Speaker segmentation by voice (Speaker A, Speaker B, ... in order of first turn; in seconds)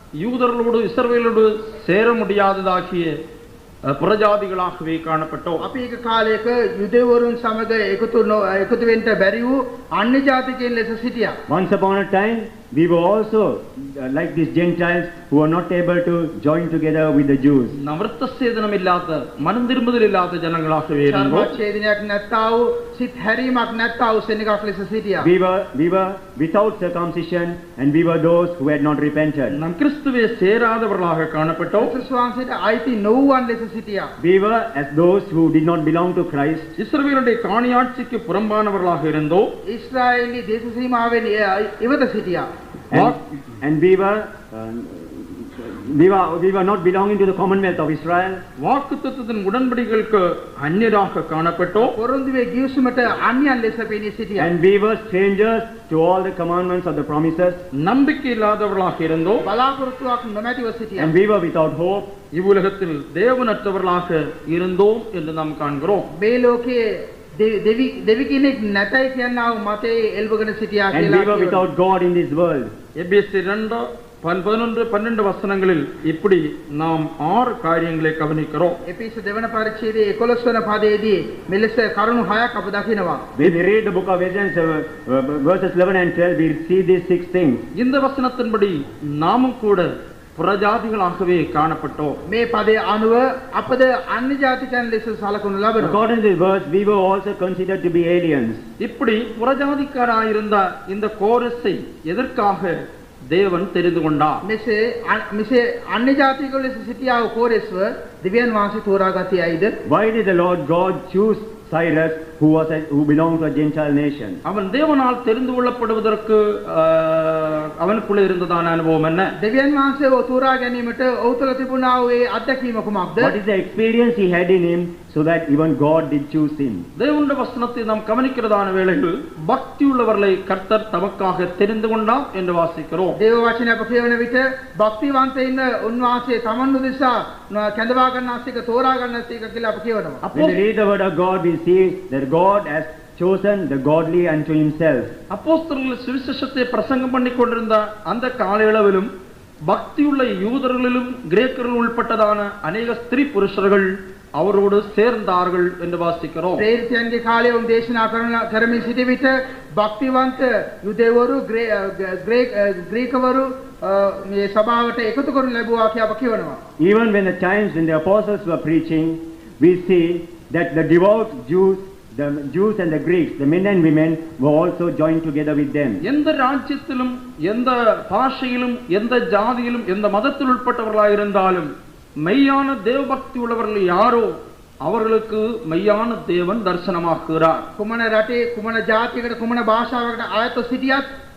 Speaker A: 0.2-3.2, 3.9-5.6, 17.8-21.5, 29.5-31.9, 36.8-39.5, 48.6-51.9, 57.7-59.5, 62.3-66.1, 73.0-78.8, 87.8-92.2, 98.8-102.7, 103.3-104.4, 114.5-119.3, 127.0-133.2, 140.2-140.6, 145.3-149.1, 149.7-156.7, 176.0-181.7, 182.2-184.3, 184.8-187.7
Speaker B: 5.6-11.4, 21.1-25.3, 31.8-34.1, 39.7-42.5, 51.8-54.5, 59.4-61.1, 66.1-66.8, 67.4-71.6, 78.8-83.2, 92.3-96.0, 104.4-109.7, 119.4-123.3, 133.2-140.2, 156.6-166.6, 187.8-191.1
Speaker C: 11.5-17.8, 25.2-29.6, 34.2-36.7, 42.9-48.4, 54.4-57.6, 61.0-62.1, 70.9-72.7, 83.4-87.7, 95.8-98.7, 109.8-114.4, 123.2-126.9, 140.3-145.1, 166.8-176.0